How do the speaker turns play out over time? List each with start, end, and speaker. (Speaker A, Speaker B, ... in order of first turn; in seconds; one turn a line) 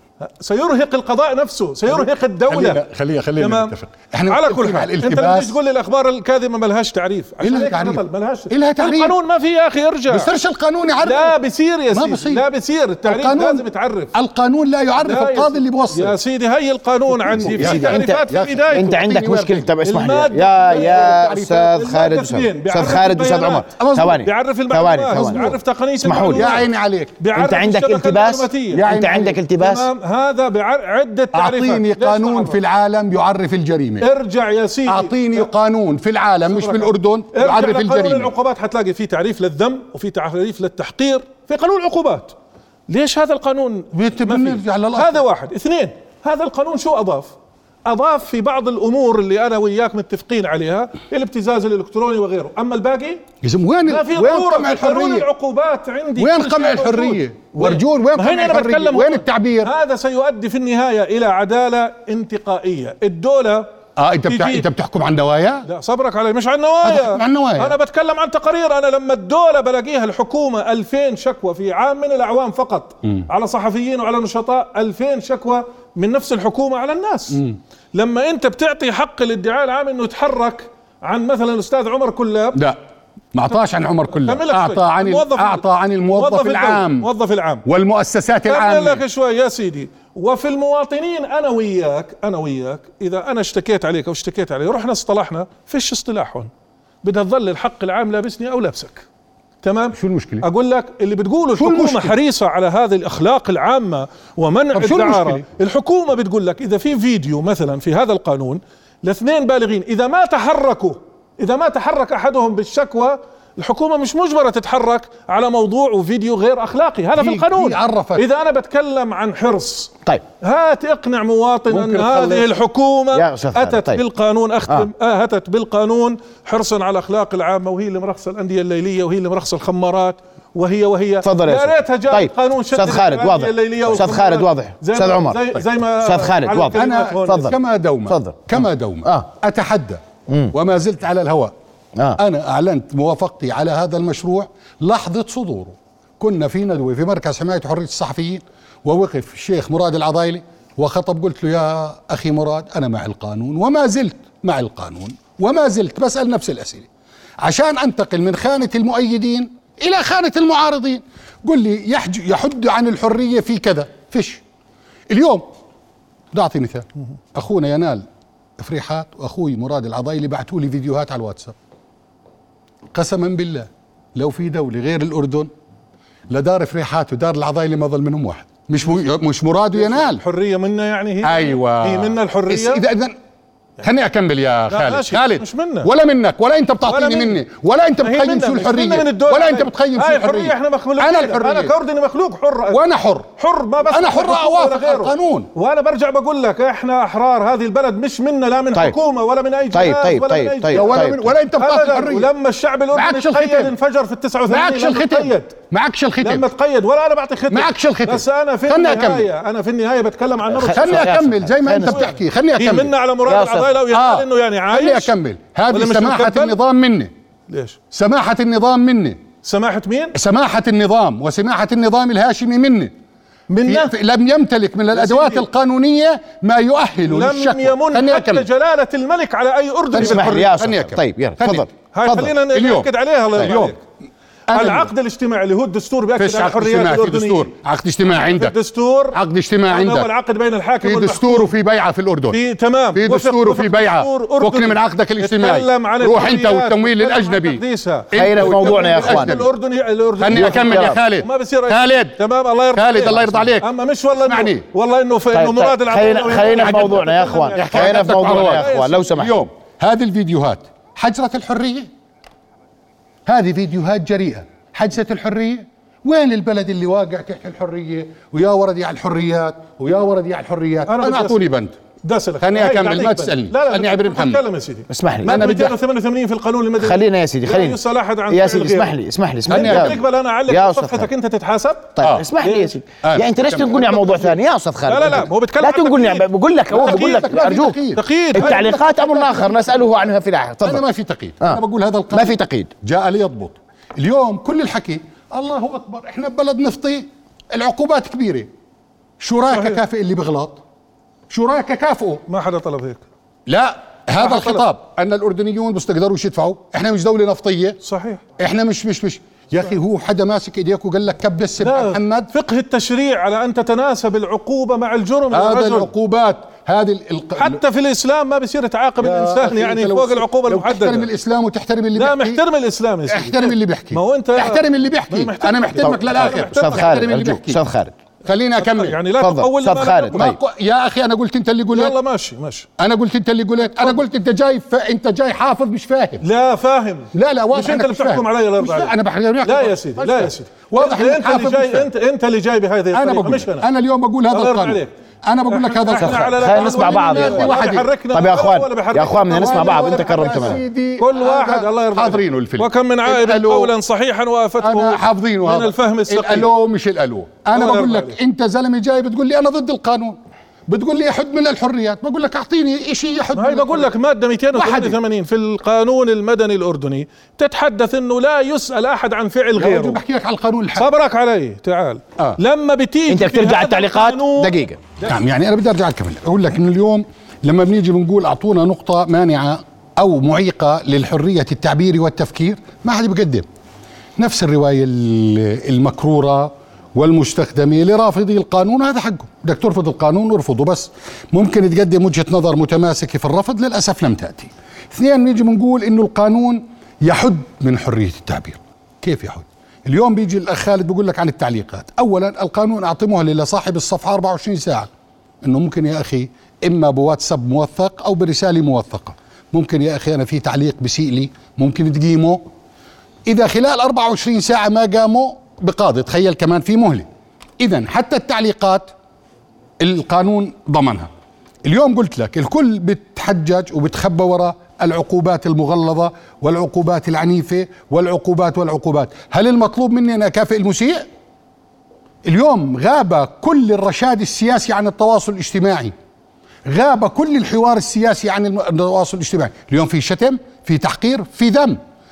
Speaker A: 0.2-2.8
Speaker B: 1.9-5.6
Speaker A: 3.4-3.7
Speaker A: 4.3-10.3
Speaker B: 7.4-9.2
Speaker B: 10.1-11.3
Speaker A: 11.0-14.1
Speaker B: 11.9-12.4
Speaker B: 13.0-16.2
Speaker A: 15.0-19.0
Speaker B: 17.1-19.7
Speaker C: 17.4-26.6
Speaker A: 19.8-26.6
Speaker B: 20.7-21.5
Speaker B: 23.8-24.2
Speaker B: 26.3-27.2
Speaker A: 27.2-28.9
Speaker C: 27.4-29.9
Speaker B: 28.8-29.4
Speaker A: 29.6-32.6
Speaker B: 31.3-34.1
Speaker A: 34.0-35.5
Speaker B: 34.9-38.3
Speaker A: 36.5-42.4
Speaker A: 42.9-47.3
Speaker B: 43.9-45.2
Speaker A: 47.9-53.2
Speaker B: 53.4-55.3
Speaker A: 53.9-63.7
Speaker B: 56.2-59.7
Speaker B: 64.0-65.7
Speaker A: 64.3-64.7
Speaker A: 65.7-77.4
Speaker B: 66.8-67.8
Speaker A: 77.9-82.6
Speaker B: 83.3-87.1
Speaker A: 84.1-87.6
Speaker B: 87.6-89.0
Speaker A: 88.5-96.5
Speaker A: 97.0-99.0
Speaker A: 99.6-137.5
Speaker B: 99.9-100.5
Speaker B: 101.5-102.2
Speaker B: 104.7-105.4
Speaker B: 117.1-118.2
Speaker B: 121.7-122.5
Speaker C: 123.1-124.0
Speaker C: 131.2-138.5
Speaker B: 136.7-141.5
Speaker C: 140.3-140.5
Speaker B: 142.2-156.9
Speaker B: 157.4-164.4
Speaker B: 165.1-165.5
Speaker B: 166.3-168.0
Speaker B: 168.6-171.5
Speaker B: 172.9-175.5
Speaker B: 176.3-180.2
Speaker A: 179.8-182.8
Speaker B: 181.2-183.2
Speaker B: 183.8-191.7
Speaker A: 184.7-185.9
Speaker A: 186.8-187.4
Speaker A: 188.0-192.8
Speaker B: 192.7-193.3
Speaker A: 193.4-205.5
Speaker B: 193.9-195.5
Speaker C: 199.7-201.2
Speaker B: 200.7-202.3
Speaker B: 202.9-203.7
Speaker B: 204.5-206.5
Speaker A: 206.2-211.1
Speaker B: 207.5-209.3
Speaker C: 210.5-212.1
Speaker B: 210.7-212.9
Speaker A: 211.8-215.1
Speaker C: 213.2-213.7
Speaker B: 213.9-217.1
Speaker A: 215.7-216.6
Speaker A: 217.5-217.8
Speaker B: 217.9-219.2
Speaker A: 219.4-220.2
Speaker B: 220.1-222.9
Speaker A: 223.5-223.9
Speaker B: 223.7-228.5
Speaker A: 224.9-225.5
Speaker A: 227.1-230.6
Speaker B: 229.9-231.7
Speaker C: 229.9-232.3
Speaker A: 231.9-233.8
Speaker B: 232.5-233.8
Speaker B: 234.5-234.9
Speaker A: 234.5-237.5
Speaker B: 236.2-238.5
Speaker A: 238.1-241.5
Speaker B: 239.1-240.1
Speaker B: 240.8-242.4
Speaker A: 242.3-259.1
Speaker B: 242.9-249.5
Speaker C: 248.1-249.4
Speaker B: 250.2-252.2
Speaker C: 250.3-251.0
Speaker B: 252.7-253.7
Speaker B: 254.2-254.7
Speaker C: 255.3-259.4
Speaker B: 256.6-257.0
Speaker B: 257.5-261.9
Speaker B: 263.2-271.8
Speaker A: 270.9-271.4
Speaker A: 272.0-279.0
Speaker B: 272.4-274.4
Speaker C: 274.9-275.6
Speaker B: 275.2-275.8
Speaker C: 276.8-281.1
Speaker A: 279.5-282.8
Speaker B: 279.5-280.0
Speaker C: 282.0-287.8
Speaker B: 283.0-284.2
Speaker A: 283.7-284.2
Speaker A: 284.9-288.8
Speaker B: 286.7-289.6
Speaker C: 288.3-290.8
Speaker B: 290.6-298.5
Speaker C: 292.1-292.7
Speaker B: 299.2-300.6
Speaker A: 299.5-299.8
Speaker B: 301.3-302.2
Speaker A: 302.3-303.0
Speaker B: 303.5-307.8
Speaker A: 304.2-304.6
Speaker A: 307.8-308.2
Speaker B: 308.4-312.3
Speaker A: 311.6-315.9
Speaker B: 315.3-317.6
Speaker A: 317.4-321.1
Speaker B: 319.0-322.4
Speaker A: 322.0-327.1
Speaker B: 323.1-327.6
Speaker C: 326.1-327.9
Speaker B: 328.2-329.0
Speaker A: 328.6-330.2
Speaker C: 329.2-330.4
Speaker B: 330.1-331.9
Speaker A: 331.7-332.7
Speaker B: 332.8-336.2
Speaker A: 336.2-338.9
Speaker B: 337.1-341.9
Speaker A: 339.4-343.7
Speaker B: 342.9-347.9
Speaker A: 344.3-344.9
Speaker A: 345.5-356.5
Speaker C: 346.0-347.6
Speaker C: 348.1-350.6
Speaker B: 349.3-353.7
Speaker B: 354.6-363.9
Speaker A: 357.5-358.2
Speaker A: 363.3-370.0
Speaker B: 364.5-365.0
Speaker B: 369.6-370.9
Speaker A: 370.8-375.1
Speaker C: 373.1-374.8
Speaker B: 375.0-383.5
Speaker B: 384.2-404.9
Speaker B: 405.4-412.4
Speaker B: 413.3-417.1
Speaker B: 417.6-418.9
Speaker B: 419.8-421.1
Speaker B: 421.6-431.1
Speaker B: 432.2-435.9
Speaker B: 436.7-441.8